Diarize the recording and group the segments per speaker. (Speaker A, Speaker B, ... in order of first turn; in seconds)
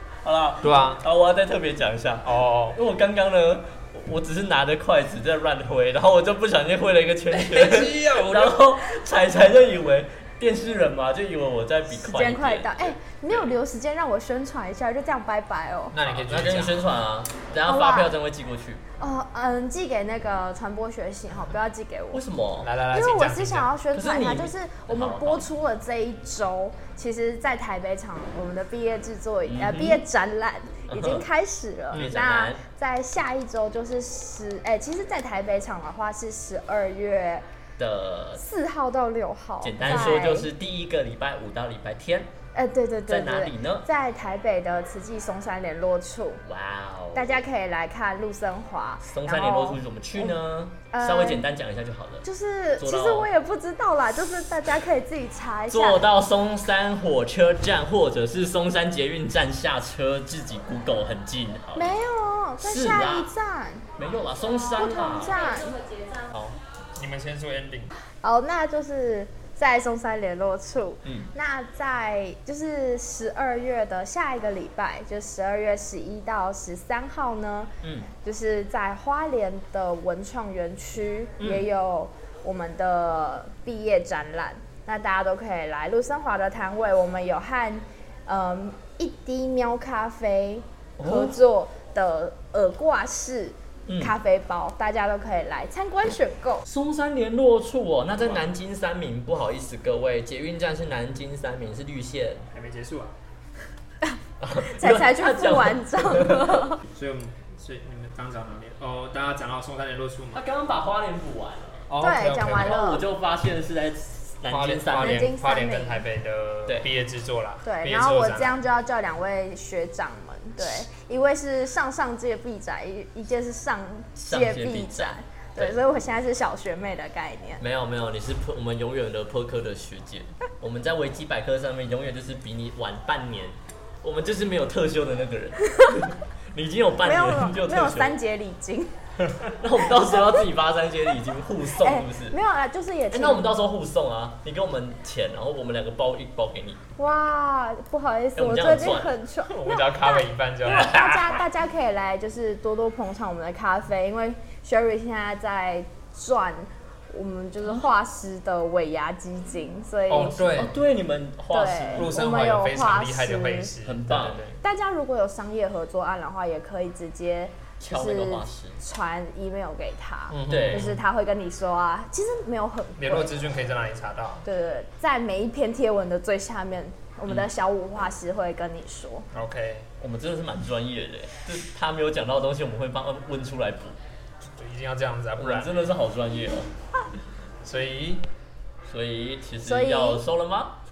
Speaker A: 0.1-13.5, 16.0-18.8, 22.1-22.7, 23.9-25.4, 29.4-30.0, 30.9-31.2, 31.9-32.6, 37.8-38.4, 39.6-42.3, 43.1-43.9, 46.4-47.4, 49.0-52.2, 52.8-53.3, 55.7-62.0, 62.6-63.3, 64.0-65.5, 66.3-66.6, 71.0-71.3, 77.8-78.1, 81.4-81.7, 91.0-91.4, 93.9-94.2, 96.7-102.5, 104.4-106.8, 110.3-111.9, 112.5-115.3, 124.2-125.8, 127.6-138.2, 139.6-142.4, 143.1-146.8, 148.3-149.2, 150.7-151.4, 160.1-162.2, 163.8-164.4, 167.8-168.8, 170.5-171.0, 180.0-184.0, 185.4-186.7, 188.8-190.8
Speaker B: 0.6-1.0, 2.2-2.8, 7.3-8.7, 15.9-16.8, 22.6-23.7, 67.0-67.9, 102.5-103.1, 106.9-110.4, 111.9-112.8, 114.5-118.5, 149.5-151.3, 160.1-160.8, 161.9-164.6, 170.3-171.0, 173.0-174.4, 179.3-179.9, 184.6-185.9, 187.6-188.2
Speaker C: 11.9-16.0, 17.6-18.1, 19.0-22.2, 22.9-37.4, 38.4-40.5, 42.5-46.4, 47.1-50.3, 50.9-51.4, 52.2-56.0, 61.7-63.9, 64.6-65.9, 68.2-96.7, 104.0-106.8, 112.0-113.0, 115.0-116.0, 117.6-127.6, 135.6-136.0, 137.0-138.9, 139.9-140.4, 141.8-143.6, 147.0-160.6, 161.5-163.7, 164.6-173.3, 174.4-179.3, 189.6-190.2